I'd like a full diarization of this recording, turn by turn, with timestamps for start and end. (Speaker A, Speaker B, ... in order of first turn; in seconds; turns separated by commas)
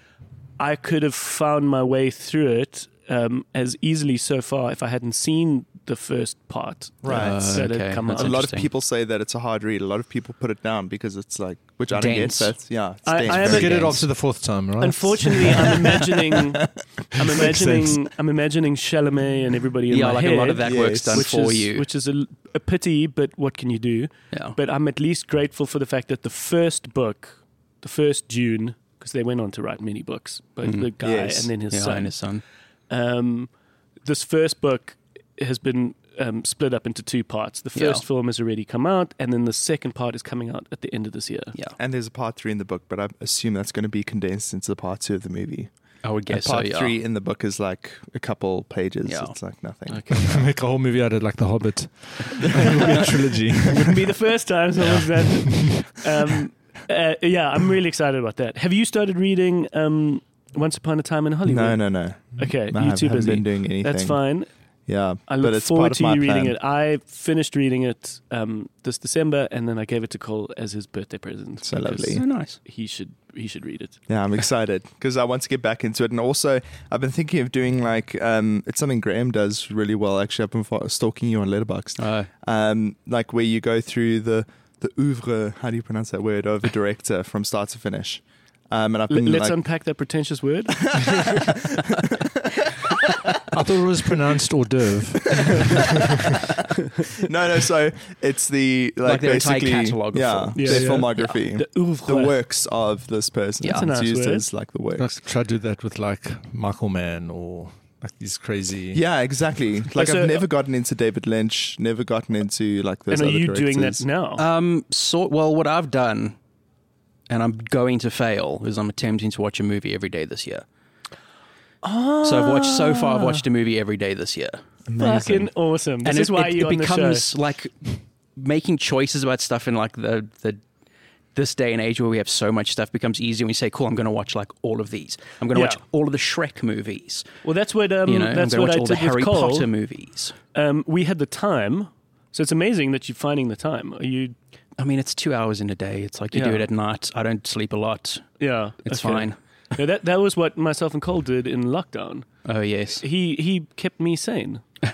Speaker A: 0.6-8.4, Speaker B: 7.0-14.0, Speaker C: 7.0-8.7, Speaker C: 11.9-12.6, Speaker A: 13.0-14.0, Speaker D: 13.3-15.7, Speaker C: 13.4-14.0, Speaker A: 14.8-32.2, Speaker D: 17.3-18.0, Speaker C: 19.9-21.9, Speaker B: 20.6-21.3, Speaker C: 24.3-24.6, Speaker C: 30.6-30.9, Speaker B: 31.0-31.5, Speaker C: 31.7-32.4, Speaker A: 32.9-33.5, Speaker A: 34.0-41.5, Speaker C: 37.7-38.0, Speaker B: 41.8-45.7, Speaker C: 46.0-47.0, Speaker B: 46.3-50.3, Speaker C: 49.0-49.3, Speaker A: 49.9-50.4, Speaker D: 50.2-53.9, Speaker A: 53.6-64.5, Speaker B: 61.5-64.2, Speaker B: 64.9-66.5, Speaker A: 65.3-74.0, Speaker B: 71.6-72.2, Speaker C: 72.1-72.6, Speaker B: 74.1-89.6, Speaker C: 82.0-82.3, Speaker A: 89.1-91.4, Speaker B: 90.9-92.9, Speaker D: 93.5-96.3, Speaker B: 97.2-105.1, Speaker C: 99.0-101.4, Speaker A: 100.5-102.3, Speaker C: 103.6-103.9, Speaker A: 103.7-104.5, Speaker D: 105.0-109.0, Speaker B: 108.9-114.0, Speaker A: 109.9-110.5, Speaker A: 113.1-114.4, Speaker C: 114.4-116.3, Speaker C: 117.3-120.6, Speaker A: 121.8-123.4, Speaker C: 122.2-124.6, Speaker B: 124.9-125.5, Speaker A: 125.0-127.2, Speaker C: 126.0-130.6, Speaker C: 131.3-137.3, Speaker A: 135.5-135.8, Speaker A: 137.4-139.7, Speaker C: 138.1-140.3, Speaker A: 140.5-144.3, Speaker C: 144.8-149.3, Speaker A: 146.3-146.7, Speaker A: 148.4-152.3, Speaker C: 152.4-153.0, Speaker A: 153.0-154.6